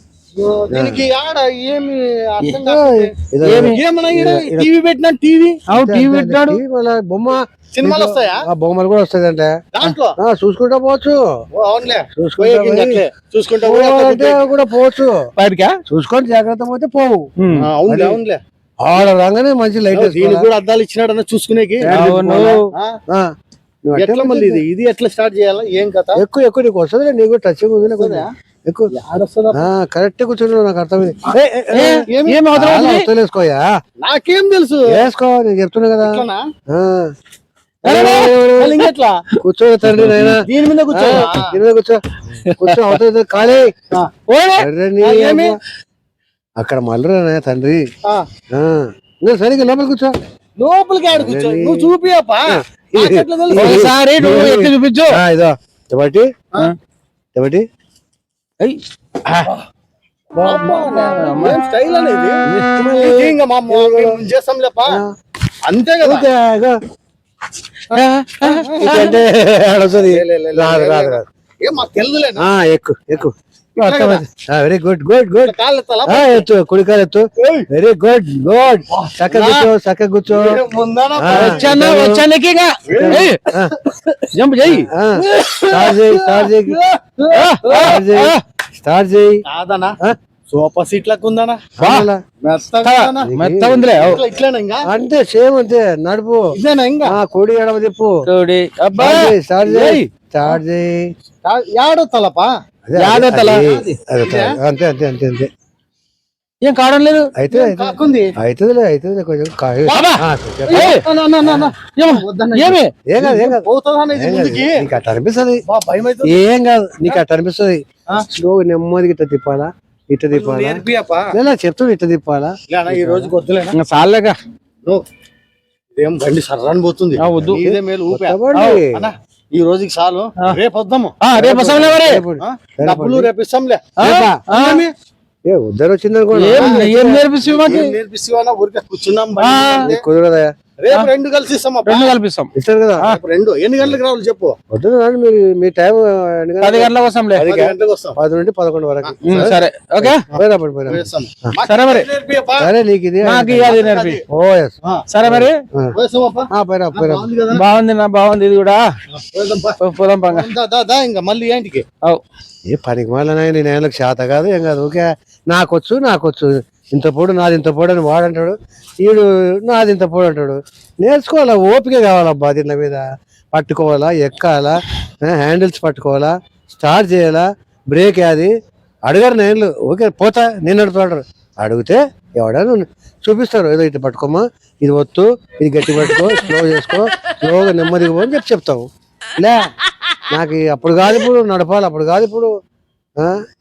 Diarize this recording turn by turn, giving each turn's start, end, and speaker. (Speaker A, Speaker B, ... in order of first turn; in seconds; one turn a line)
Speaker A: 0.4-5.6
Speaker B: 0.7-1.1
Speaker B: 2.6-4.7
Speaker C: 3.4-3.8
Speaker C: 5.7-6.6
Speaker B: 5.7-9.6
Speaker A: 7.7-8.4
Speaker A: 9.7-10.2
Speaker B: 10.2-11.2
Speaker A: 11.6-14.5
Speaker B: 12.2-13.0
Speaker B: 13.6-15.2
Speaker C: 15.4-15.8
Speaker B: 15.9-17.3
Speaker C: 17.4-17.7
Speaker A: 17.6-18.4
Speaker B: 17.9-18.2
Speaker B: 18.8-20.5
Speaker A: 19.9-21.9
Speaker B: 21.8-22.6
Speaker C: 21.9-22.7
Speaker A: 22.5-23.0
Speaker B: 23.9-24.6
Speaker A: 24.0-26.2
Speaker B: 26.2-28.9
Speaker A: 28.0-28.3
Speaker A: 28.9-29.6
Speaker B: 29.6-33.6
Speaker C: 31.7-33.1
Speaker A: 32.1-32.4
Speaker A: 34.0-35.0
Speaker B: 34.9-36.2
Speaker A: 36.0-36.4
Speaker B: 36.7-37.1
Speaker B: 37.8-38.8
Speaker C: 37.9-38.4
Speaker A: 38.6-39.2
Speaker B: 39.4-42.0
Speaker C: 39.9-40.4
Speaker A: 40.4-41.6
Speaker C: 42.5-43.0
Speaker B: 42.6-43.7
Speaker C: 44.3-44.7
Speaker B: 44.6-45.6
Speaker A: 45.0-45.6
Speaker B: 46.6-47.8
Speaker B: 48.5-50.2
Speaker A: 50.6-53.9
Speaker B: 51.1-51.9
Speaker B: 52.5-56.3
Speaker C: 53.6-55.2
Speaker B: 57.4-57.6
Speaker C: 58.6-59.5
Speaker A: 60.4-65.0
Speaker C: 60.7-61.6
Speaker B: 62.5-64.2
Speaker A: 65.7-66.3
Speaker B: 66.0-66.8
Speaker C: 67.9-69.2
Speaker A: 67.9-69.2
Speaker B: 68.6-71.2
Speaker A: 70.0-72.5
Speaker B: 72.4-75.5
Speaker A: 73.8-74.2
Speaker A: 75.4-76.5
Speaker B: 76.1-80.6
Speaker A: 77.4-77.7
Speaker A: 78.9-79.7
Speaker A: 80.3-81.7
Speaker B: 81.2-82.2
Speaker C: 81.3-83.4
Speaker A: 82.9-84.2
Speaker B: 83.0-83.8
Speaker C: 84.3-84.9
Speaker B: 84.7-86.8
Speaker A: 85.2-87.9
Speaker C: 87.3-88.4
Speaker B: 87.7-89.4
Speaker A: 89.5-90.0
Speaker A: 90.5-91.6
Speaker B: 91.8-92.2
Speaker C: 91.8-92.1
Speaker A: 92.5-93.3
Speaker C: 92.8-94.2
Speaker B: 93.2-94.2
Speaker A: 93.9-94.8
Speaker B: 94.9-96.4
Speaker A: 96.5-97.2
Speaker B: 97.1-98.1
Speaker C: 98.3-100.1
Speaker B: 99.0-101.0
Speaker A: 101.5-102.5
Speaker B: 102.9-105.5
Speaker C: 103.0-103.7
Speaker A: 103.6-104.6
Speaker C: 106.6-107.3
Speaker B: 107.4-110.9
Speaker A: 107.5-108.3
Speaker C: 109.9-111.0
Speaker A: 110.7-114.9
Speaker C: 111.9-112.9
Speaker B: 113.1-115.6
Speaker A: 115.7-116.4
Speaker B: 116.2-120.8
Speaker A: 120.3-121.3
Speaker B: 121.3-123.3
Speaker A: 122.7-123.8
Speaker C: 123.8-124.4
Speaker A: 126.0-128.4
Speaker C: 127.2-127.6
Speaker B: 127.4-128.9
Speaker C: 128.5-128.8
Speaker A: 128.9-131.2
Speaker C: 131.2-132.2
Speaker B: 131.4-133.3
Speaker A: 132.4-133.9
Speaker B: 134.0-134.4
Speaker C: 134.0-134.8
Speaker A: 134.5-134.9
Speaker B: 135.5-137.3
Speaker C: 136.3-137.9
Speaker A: 136.5-136.9
Speaker A: 137.5-140.0
Speaker C: 139.4-139.9
Speaker B: 139.8-140.5
Speaker A: 140.8-142.1
Speaker C: 141.9-142.5
Speaker B: 142.6-143.2
Speaker A: 143.0-144.6
Speaker B: 144.7-151.0
Speaker C: 146.6-147.5
Speaker A: 147.5-148.2
Speaker A: 149.0-149.6
Speaker C: 149.2-150.2
Speaker A: 150.3-152.7
Speaker C: 151.7-152.1
Speaker B: 152.6-153.8
Speaker C: 153.2-154.2
Speaker A: 153.7-154.2
Speaker B: 154.3-155.9
Speaker C: 155.1-155.6
Speaker A: 155.9-157.6
Speaker B: 156.5-157.3
Speaker C: 157.5-158.8
Speaker A: 159.1-161.8
Speaker C: 159.8-160.5
Speaker B: 162.7-178.5
Speaker B: 179.1-189.6
Speaker B: 190.3-192.5